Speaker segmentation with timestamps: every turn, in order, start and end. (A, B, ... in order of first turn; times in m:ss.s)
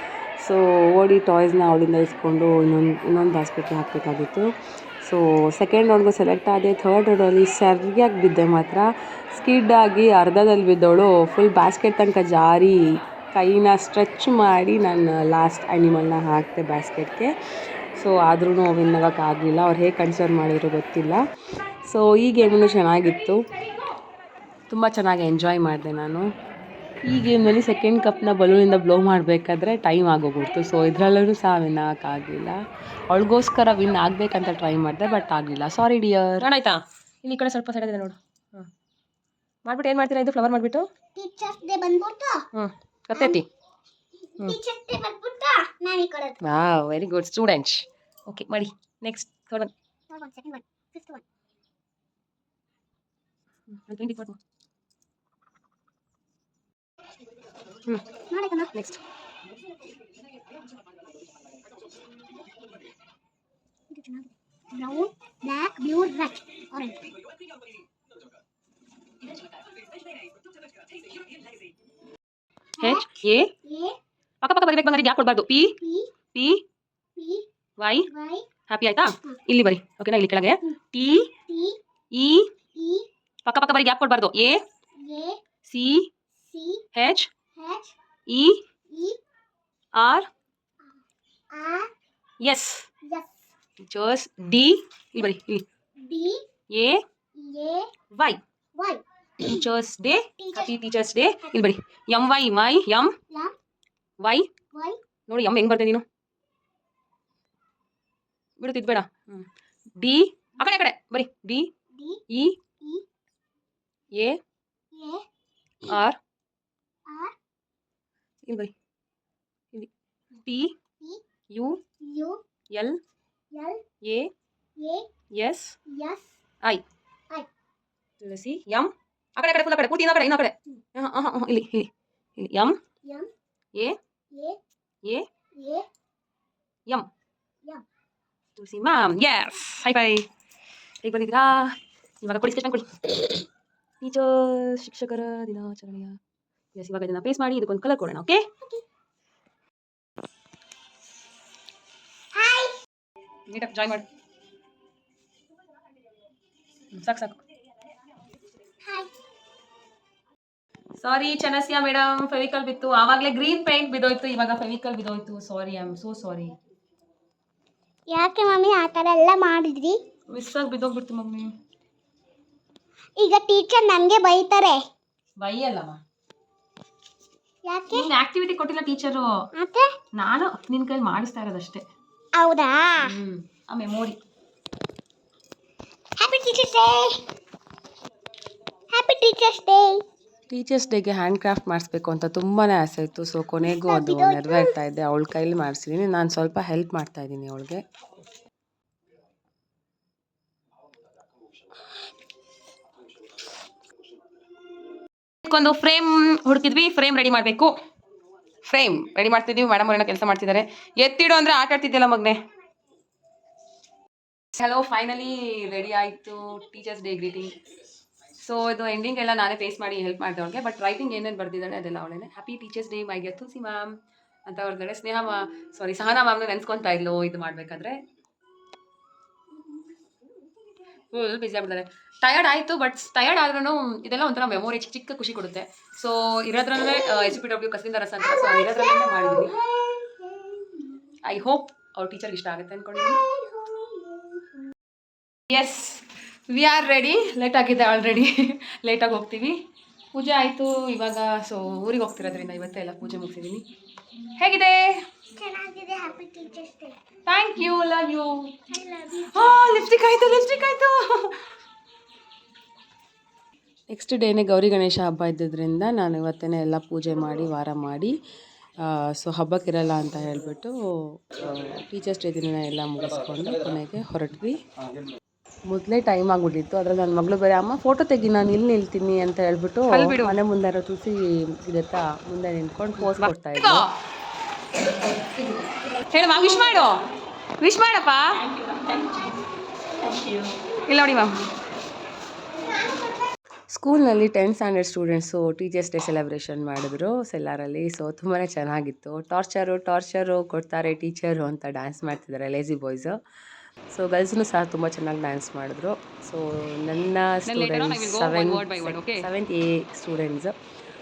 0:00.4-0:04.5 A
0:05.0-0:17.4 A
0:18.0-0:21.2 A
0:21.8-0:23.5 A
0:24.7-0:26.3 A
0:27.1-0:36.5 A
0:36.4-0:38.7 B
0:39.6-0:40.9 B
0:41.2-0:42.4 C
0:42.5-0:43.4 B
0:43.1-0:43.4 C
0:44.4-0:46.4 C
0:46.4-0:49.7 B
0:50.1-0:51.2 C
0:53.7-0:54.4 B
0:58.3-0:58.8 C
0:58.7-0:59.0 B
1:03.9-1:07.0 C
1:12.8-1:13.1 C
1:12.8-1:13.5 B
1:13.6-1:14.0 C
1:14.4-1:15.8 B
1:15.8-1:16.1 C
1:16.3-1:16.6 B
1:17.2-1:17.5 C
1:17.8-1:18.1 B
1:18.1-1:18.5 C
1:18.7-1:21.3 B
1:21.5-1:21.8 C
1:22.1-1:22.5 B
1:22.8-1:23.1 C
1:23.4-1:24.6 B
1:25.0-1:25.4 C
1:25.6-1:26.1 B
1:26.4-1:26.8 C
1:26.9-1:27.3 B
1:27.6-1:27.9 C
1:28.3-1:28.6 B
1:28.9-1:29.2 C
1:29.9-1:30.3 B
1:31.5-1:31.9 C
1:32.4-1:32.9 B
1:33.0-1:33.5 C
1:33.8-1:35.6 B
1:36.0-1:36.4 C
1:36.7-1:37.0 B
1:37.4-1:37.9 C
1:38.1-1:38.4 B
1:38.8-1:39.5 C
1:39.4-1:43.2 B
1:40.4-1:40.7 C
1:44.2-1:44.5 B
1:44.7-1:45.0 C
1:45.3-1:46.0 B
1:48.6-1:51.7 B
1:51.9-1:52.2 C
1:52.3-1:52.6 B
1:54.1-1:54.4 B
1:54.9-1:55.2 C
1:55.8-1:56.2 B
1:57.1-1:57.3 C
1:58.5-1:58.7 B
2:00.4-2:00.8 B
2:01.5-2:01.8 B
2:02.0-2:02.4 C
2:02.7-2:03.0 B
2:03.5-2:03.8 C
2:04.0-2:04.3 B
2:04.8-2:05.1 C
2:05.3-2:05.8 B
2:05.9-2:06.4 C
2:08.2-2:12.8 B
2:13.0-2:13.3 C
2:14.3-2:14.6 C
2:15.6-2:15.9 C
2:18.6-2:20.3 B
2:21.0-2:23.1 B
2:24.0-2:26.2 B
2:26.8-2:28.5 B
2:32.3-2:32.8 C
2:33.5-2:34.1 B
2:36.9-2:37.4 B
2:38.8-2:39.1 C
2:41.0-2:46.6 B
2:48.1-2:50.0 C
2:50.3-2:51.5 B
2:53.2-2:54.8 C
2:55.4-2:56.0 B
2:57.6-2:58.1 C
2:57.9-2:59.5 B
2:59.6-3:00.0 C
3:00.1-3:01.9 B
3:02.4-3:03.2 C
3:03.0-3:04.2 B
3:06.2-3:07.2 C
3:08.9-3:10.0 C
3:10.5-3:17.8 A
3:13.6-3:14.8 C
3:25.4-3:27.8 B
3:28.6-3:32.4 B
3:34.5-3:37.6 B
3:38.4-3:48.0 B
3:51.1-3:59.6 B
3:58.2-4:00.9 C
4:01.2-4:03.2 B
4:03.0-4:04.6 C
4:05.5-4:13.6 B
4:14.4-4:15.1 B
4:15.4-4:17.0 C
4:17.3-4:21.4 B
4:18.8-4:19.2 C
4:23.9-4:28.1 A
4:28.8-4:30.8 A
4:31.3-4:34.6 A
4:35.7-4:43.8 A
4:39.9-4:40.4 B
4:43.0-4:43.9 B
4:45.0-4:47.0 B
4:47.6-4:49.4 B
4:50.0-4:51.5 B
4:53.7-5:03.2 A
5:03.9-5:10.5 A
5:07.5-5:09.3 B